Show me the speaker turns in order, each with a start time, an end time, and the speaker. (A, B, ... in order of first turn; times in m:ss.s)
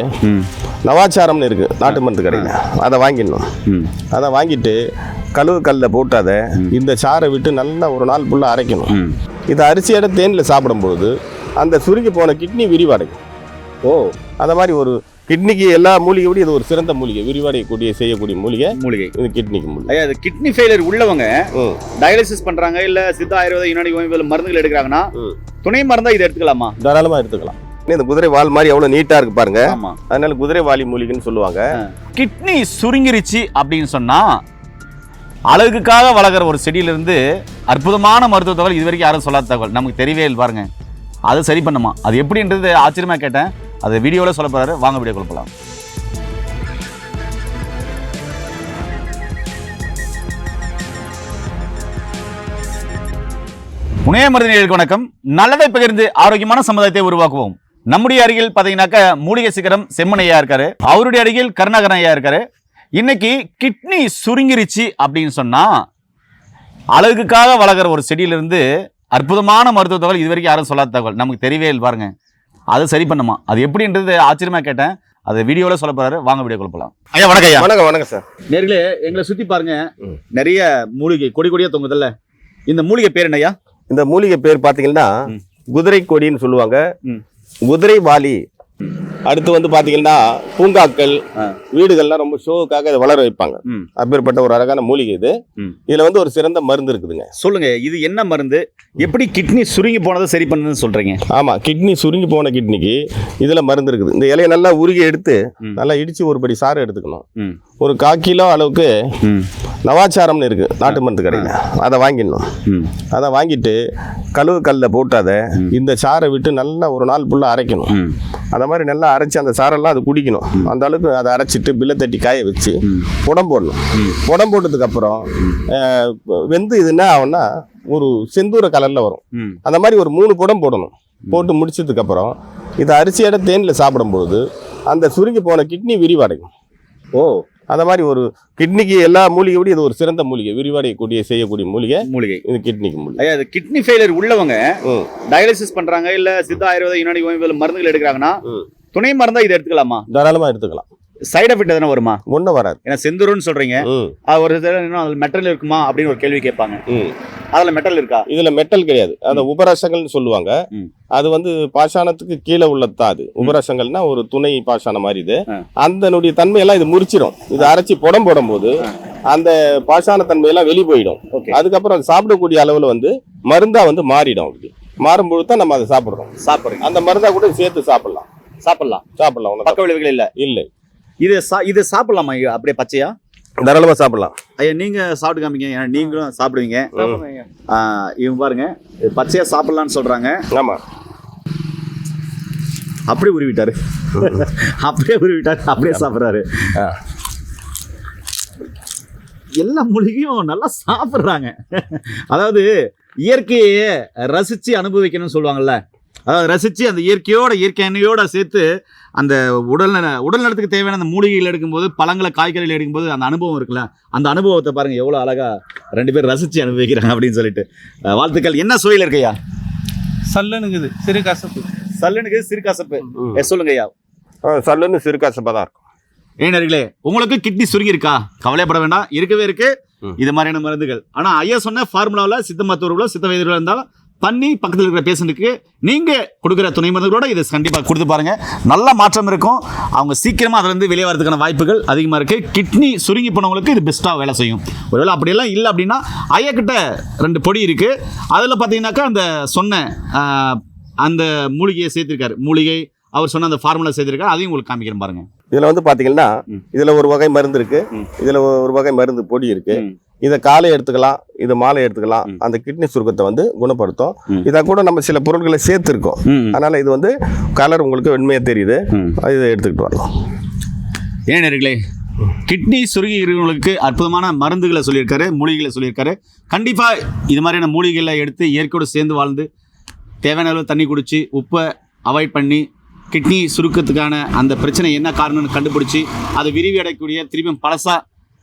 0:00.2-0:00.5 A
0:00.8-0:03.5 B
0:01.8-0:02.5 A
0:03.6-0:03.9 A
0:04.1-0:04.8 B
0:05.4-0:08.9 B
0:08.9-0:09.2 A
0:09.5-0:13.2 B
0:13.8-0:14.1 A
0:14.4-0:19.9 B
0:18.7-0:19.1 A
0:19.9-0:25.1 A
0:21.5-0:21.8 B
0:25.6-0:26.8 A
0:26.8-0:31.7 B
0:29.7-0:30.0 A
0:31.8-0:34.4 A
0:35.5-0:40.7 A
0:41.3-0:45.5 A
0:54.0-1:02.4 A
1:03.0-1:05.8 A
1:07.0-1:12.1 A
1:12.7-1:17.7 A
1:17.4-1:18.2 B
1:18.5-1:22.1 A
1:22.7-1:23.5 A
1:23.9-1:25.1 B
1:25.7-1:26.8 B
1:27.7-1:28.4 B
1:29.3-1:31.2 B
1:31.7-1:35.3 B
1:35.9-1:37.3 B
1:37.4-1:41.2 A
1:41.3-1:47.2 B
1:47.8-1:48.9 B
1:49.2-1:49.5 A
1:49.9-1:52.5 B
1:50.9-1:51.5 A
1:52.6-1:52.9 A
1:53.1-1:53.8 B
1:54.4-1:58.0 B
1:57.9-1:58.2 A
1:58.5-2:16.5 B
2:09.3-2:09.6 A
2:17.2-2:17.4 A
2:17.7-2:23.2 B
2:22.0-2:22.4 A
2:23.2-2:28.4 A
2:28.9-2:30.0 A
2:30.1-2:30.8 B
2:31.3-2:32.2 A
2:32.3-2:32.8 B
2:32.8-2:36.8 A
2:33.8-2:34.2 B
2:36.9-2:37.1 B
2:37.5-2:38.3 A
2:38.3-2:40.5 B
2:41.1-2:56.3 B
2:51.3-2:51.6 A
2:56.4-2:56.8 A
2:56.8-2:58.2 B
2:58.6-2:59.0 A
2:59.2-2:59.8 B
2:59.6-3:00.3 A
3:00.4-3:00.7 B
3:01.2-3:03.1 A
3:03.6-3:04.3 B
3:04.6-3:06.9 A
3:06.9-3:07.2 B
3:07.0-3:07.5 C
3:07.7-3:10.4 A
3:10.5-3:10.8 B
3:13.1-3:16.7 A
3:19.6-3:39.4 A
3:40.3-3:41.7 C
3:42.0-3:43.9 A
3:44.4-3:45.8 B
3:46.4-4:15.2 A
4:15.5-4:30.1 B
4:26.2-4:26.6 A
4:31.3-4:31.8 A
4:32.4-4:39.5 A
4:40.2-4:48.0 A